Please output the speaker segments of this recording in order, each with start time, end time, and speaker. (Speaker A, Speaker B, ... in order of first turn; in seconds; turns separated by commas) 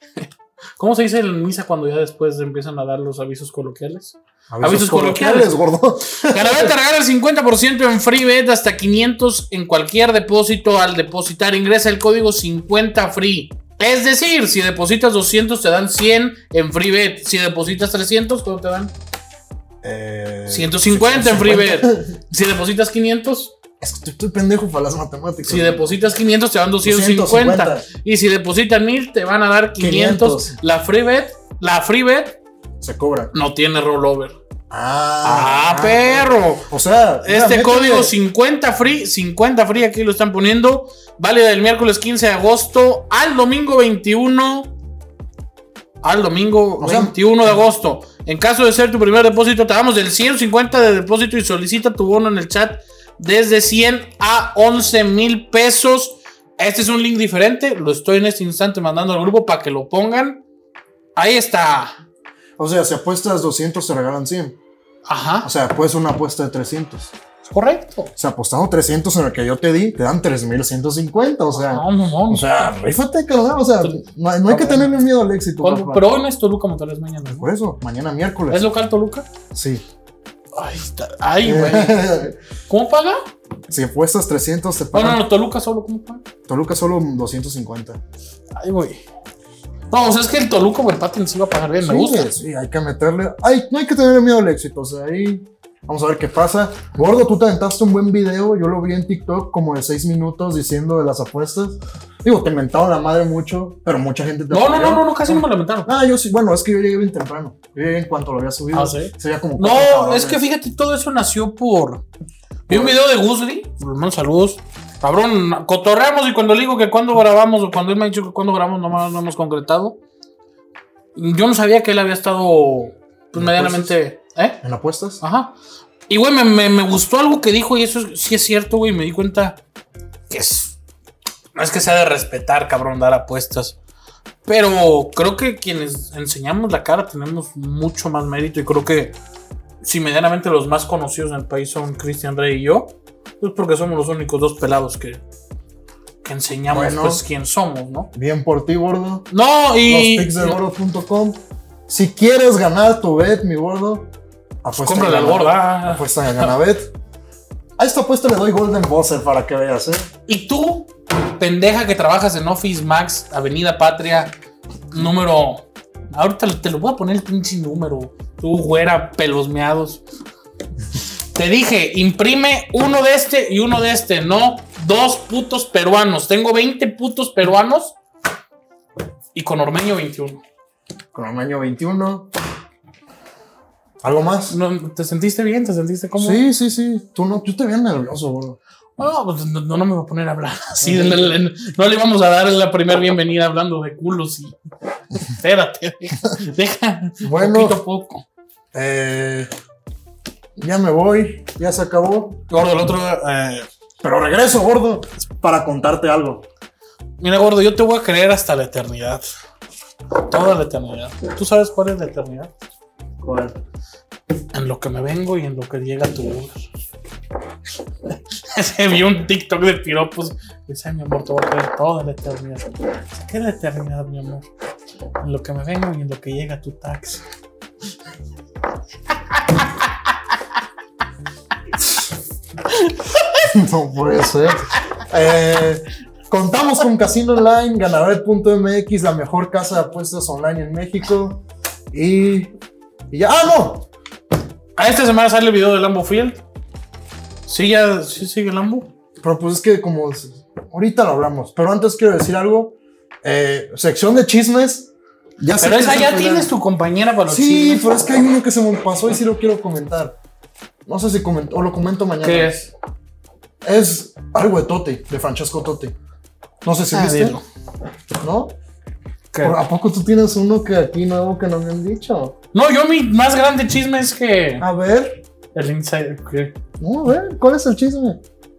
Speaker A: 0.2-5.6, Speaker B: 4.5-6.7, Speaker A: 6.2-18.9, Speaker B: 19.8-22.2, Speaker A: 20.5-23.5, Speaker B: 23.8-25.9, Speaker A: 25.4-32.4, Speaker B: 26.8-27.9, Speaker B: 29.8-30.6, Speaker B: 32.8-33.3, Speaker A: 33.3-34.4, Speaker B: 34.7-38.1, Speaker A: 35.2-36.7, Speaker A: 37.2-44.7, Speaker A: 46.0-60.4, Speaker B: 46.8-47.6, Speaker A: 61.2-62.0, Speaker B: 62.6-64.6, Speaker A: 65.1-65.5, Speaker B: 65.4-67.1, Speaker A: 67.4-68.1, Speaker B: 68.2-76.2, Speaker A: 71.6-72.5, Speaker A: 73.8-75.0, Speaker A: 75.6-77.5, Speaker B: 77.3-78.7, Speaker A: 78.5-79.3, Speaker B: 79.5-79.8, Speaker A: 80.5-83.2, Speaker B: 81.4-82.4, Speaker B: 83.7-85.2, Speaker A: 84.9-86.2, Speaker B: 86.5-88.0, Speaker A: 88.6-89.0, Speaker A: 89.9-92.3, Speaker B: 91.8-110.4, Speaker A: 104.5-105.9, Speaker A: 108.7-112.0, Speaker A: 112.7-120.0, Speaker B: 112.7-113.0, Speaker A: 121.2-124.6, Speaker B: 123.3-124.0, Speaker B: 124.6-125.2, Speaker A: 125.2-125.5, Speaker A: 126.1-129.6, Speaker A: 130.3-130.8, Speaker A: 131.6-133.8, Speaker A: 134.4-139.2, Speaker A: 139.8-145.2, Speaker A: 146.2-148.1, Speaker B: 146.7-147.2, Speaker B: 148.1-149.3, Speaker A: 149.3-150.6, Speaker B: 149.8-154.1, Speaker B: 154.6-156.9, Speaker A: 154.7-156.5, Speaker B: 157.8-160.1, Speaker A: 160.3-164.3, Speaker A: 164.9-170.0, Speaker A: 171.3-177.9, Speaker A: 179.3-180.4, Speaker B: 181.1-182.3, Speaker B: 184.0-184.6, Speaker A: 184.5-186.4, Speaker B: 186.2-188.6, Speaker A: 189.0-194.6, Speaker B: 190.8-191.4, Speaker A: 195.1-198.2, Speaker B: 197.2-197.8, Speaker B: 198.7-199.5, Speaker B: 200.6-202.4, Speaker A: 202.5-203.7, Speaker B: 204.0-206.4, Speaker A: 207.2-209.2, Speaker A: 210.2-212.5, Speaker B: 213.2-213.6, Speaker A: 214.5-216.7, Speaker A: 218.1-224.5, Speaker A: 225.2-227.2, Speaker A: 232.7-233.4, Speaker B: 233.5-242.5, Speaker B: 243.1-243.9, Speaker A: 244.8-246.4, Speaker A: 247.5-248.9, Speaker B: 249.2-256.5, Speaker A: 255.6-257.9, Speaker B: 257.3-260.2, Speaker B: 260.9-262.6, Speaker A: 262.2-262.7, Speaker B: 263.6-265.9, Speaker B: 266.6-267.4, Speaker A: 266.9-267.4, Speaker B: 268.2-268.6, Speaker A: 269.3-269.6, Speaker B: 269.4-272.4, Speaker A: 272.5-274.7, Speaker B: 274.6-275.2, Speaker A: 275.6-276.6, Speaker B: 276.8-278.2